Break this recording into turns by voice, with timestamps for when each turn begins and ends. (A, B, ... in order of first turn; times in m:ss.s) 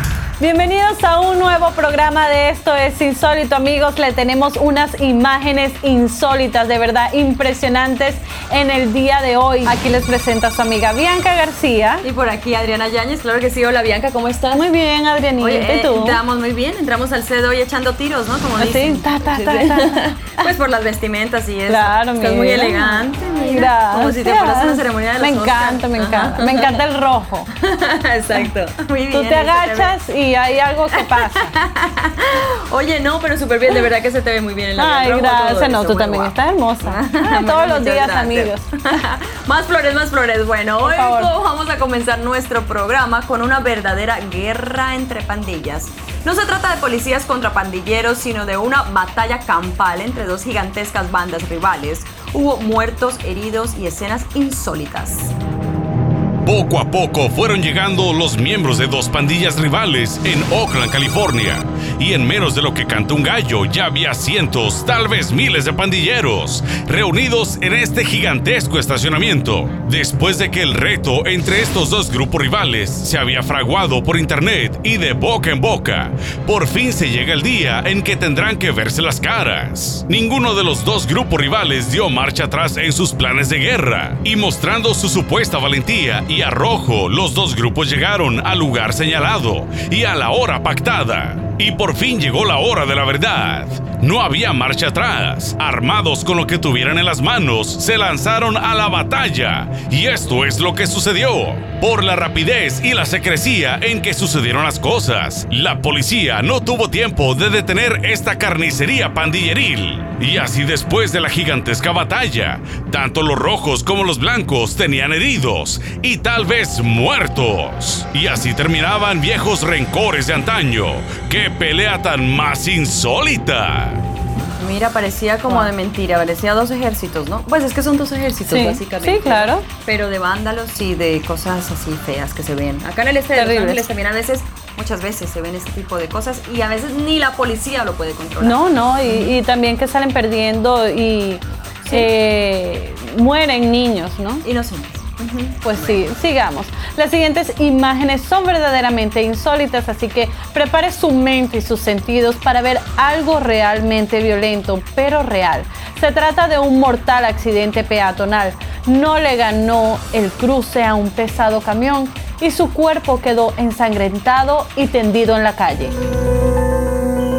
0:00.4-0:12.0 A
0:12.0-0:14.7 B
0:14.5-0:16.2 A
0:15.4-0:26.8 B
0:18.6-0:20.5 A
0:21.7-0:27.5 A
0:27.5-0:30.0 B
0:29.1-0:31.5 A
0:31.0-0:55.3 B
0:34.8-0:38.7 A
0:40.8-0:41.3 A
0:56.4-2:04.0 C
2:04.6-2:19.4 B
2:08.5-2:09.7 A
2:13.3-2:13.8 A
2:18.4-2:24.4 A
2:21.8-2:22.1 B
2:24.4-2:26.1 B
2:25.6-2:46.0 A